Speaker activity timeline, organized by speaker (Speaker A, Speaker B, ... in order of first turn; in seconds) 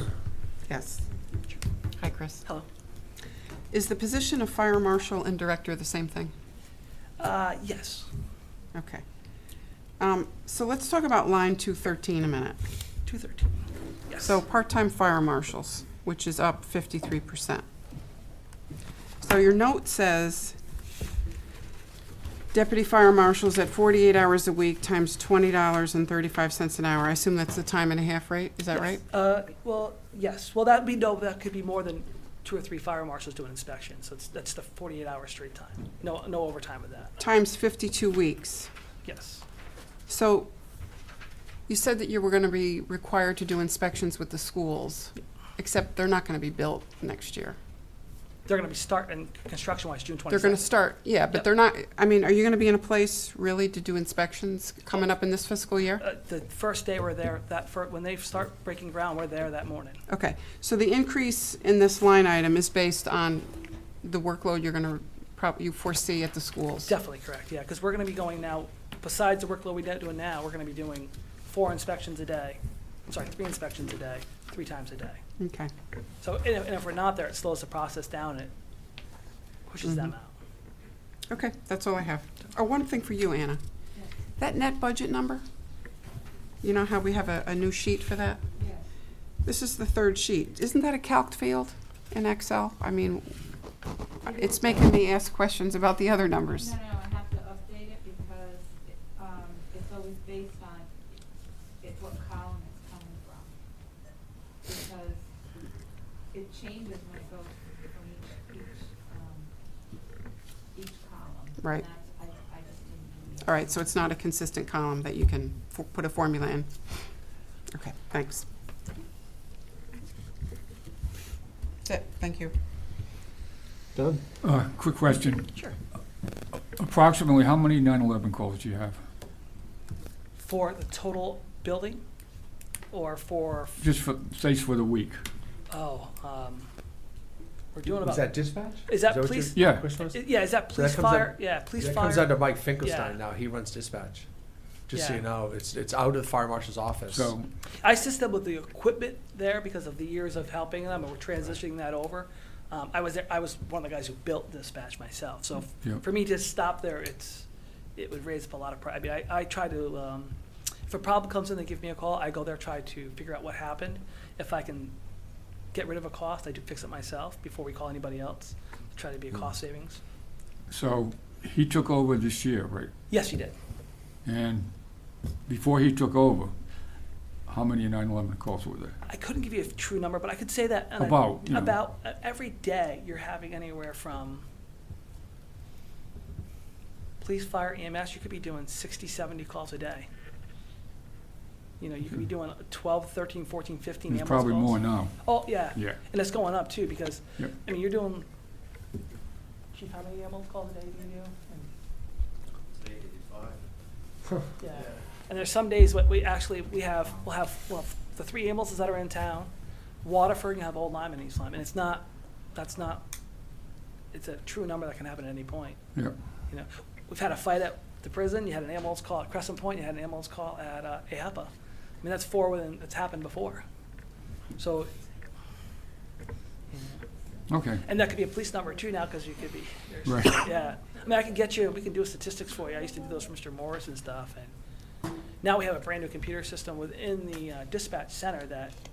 Speaker A: 0.7-1.1, 2.0-2.5, 3.7-6.3, 8.7-9.0, 10.0-12.6, 14.2-17.6, 19.2-20.6, 22.5-29.0, 37.2-38.7, 40.1-40.5, 41.7-47.6, 50.3-56.0, 60.1-66.9, 75.4-75.7, 81.3-83.6, 84.4-85.4, 86.6-88.6, 89.4-93.4, 94.2-96.8, 111.6-111.9, 113.4-117.1, 117.7-118.5, 121.8-122.5
Speaker B: 7.2-8.1, 13.1-14.3, 28.7-37.1, 39.0-39.4, 48.5-50.7, 56.0-60.0, 66.9-75.2, 76.2-78.5, 79.7-80.3, 130.4-132.0, 132.9-133.9, 135.7-136.7, 137.7-143.2, 144.9-145.2, 147.8-160.4, 160.9-164.9, 165.7-170.0, 173.1-173.5, 179.0-184.5, 187.2-190.1, 191.8-198.3, 199.7-201.7, 204.6-209.5, 210.0-213.1, 214.1-215.8, 216.5-223.7, 224.6-224.9, 226.7-227.0, 227.8-234.5, 235.4-238.8
Speaker C: 96.6-101.0, 101.8-103.5, 104.7-105.3, 106.2-109.5, 110.7-113.6
Speaker D: 124.4-125.5, 126.7-129.0, 133.8-135.2, 139.6-139.8, 147.1-147.5, 170.7-172.9, 174.2-174.9, 175.5-176.6, 177.5-179.0, 181.0-181.8, 194.1-196.0, 227.5-227.8, 230.1-230.4
Speaker E: 137.9-144.3, 144.9-147.3